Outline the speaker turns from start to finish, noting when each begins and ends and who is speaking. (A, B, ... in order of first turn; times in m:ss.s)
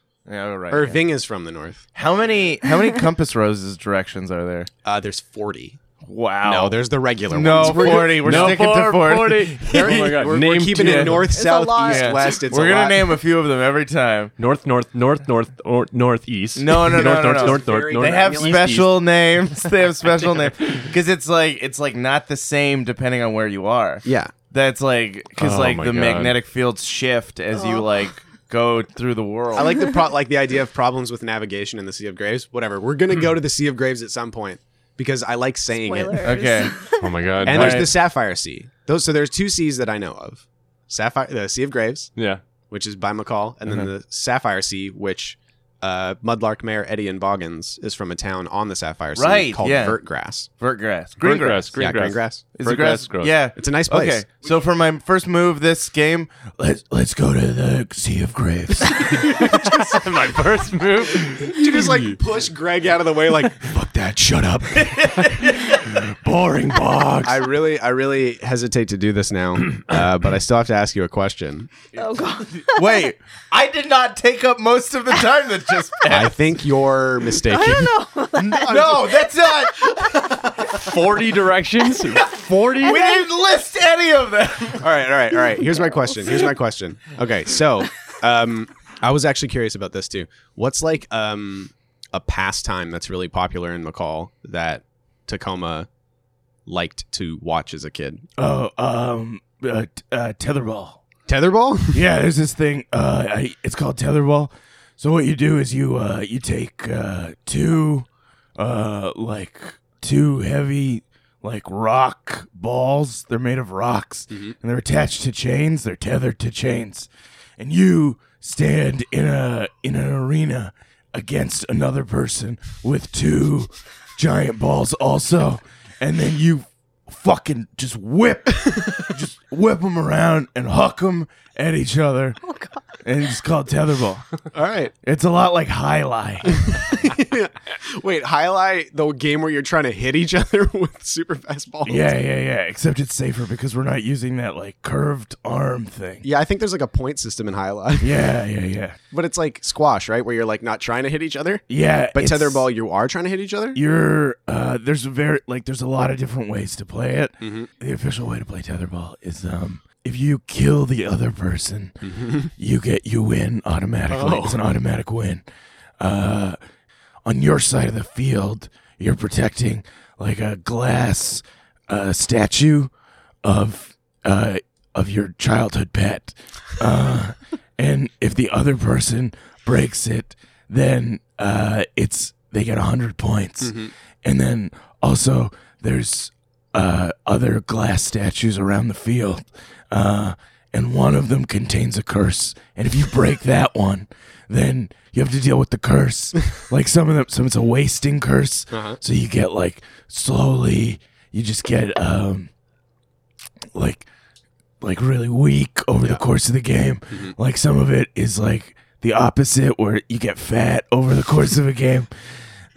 0:00.2-0:01.0 A
0:00.7-0:01.8 B
0:01.9-0:04.7 A
0:04.8-0:05.8 B
0:06.0-0:06.8 A
0:06.4-0:08.6 B
0:07.3-0:10.2 A
0:07.6-0:11.3 C
0:09.6-0:13.1 B
0:10.8-0:11.2 A
0:11.3-0:12.2 D
0:11.8-0:14.3 A
0:14.4-0:18.7 C
0:16.6-0:29.8 A
0:16.9-0:18.9 B
0:24.0-0:24.3 B
0:25.4-0:26.4 C
0:27.5-0:27.8 D
0:29.5-0:36.4 B
0:35.8-0:37.1 D
0:36.2-0:36.8 A
0:37.0-0:37.9 C
0:37.4-0:42.1 B
0:37.4-0:37.9 A
0:42.2-0:42.4 C
0:42.7-0:50.5 B
0:49.1-0:50.0 A
0:50.6-0:51.8 A
0:51.2-0:53.4 C
0:51.8-0:52.4 B
0:52.5-0:59.4 A
0:53.5-0:54.3 B
0:59.0-1:01.8 C
1:01.4-1:03.6 B
1:03.6-1:07.4 A
1:07.2-1:11.8 B
1:12.0-1:13.1 D
1:12.6-1:16.6 A
1:16.1-1:17.9 B
1:17.5-1:19.3 D
1:18.4-1:20.9 A
1:18.6-1:19.0 B
1:20.8-1:22.9 C
1:22.1-1:24.9 A
1:22.8-1:23.3 D
1:24.8-1:35.9 B
1:26.0-1:26.5 D
1:36.6-1:38.2 B
1:38.4-1:41.0 A
1:41.3-1:42.0 B
1:41.9-2:12.4 A
1:54.3-1:54.5 B
2:12.4-2:12.8 D
2:13.0-2:14.4 A
2:14.5-2:14.9 B
2:15.0-2:16.8 A
2:16.6-2:22.2 B
2:21.8-2:26.3 A
2:26.2-2:28.2 B
2:28.0-2:29.0 A
2:29.1-2:33.8 B
2:31.7-2:32.7 A
2:33.7-2:45.4 A
2:37.4-2:37.7 B
2:42.0-2:42.5 B
2:44.1-2:44.6 B
2:46.0-2:46.6 A
2:47.2-2:52.9 A
2:53.4-3:22.5 A
3:03.6-3:03.9 B
3:18.7-3:19.0 B
3:23.7-3:24.0 A
3:24.8-3:32.4 A
3:27.1-3:27.4 B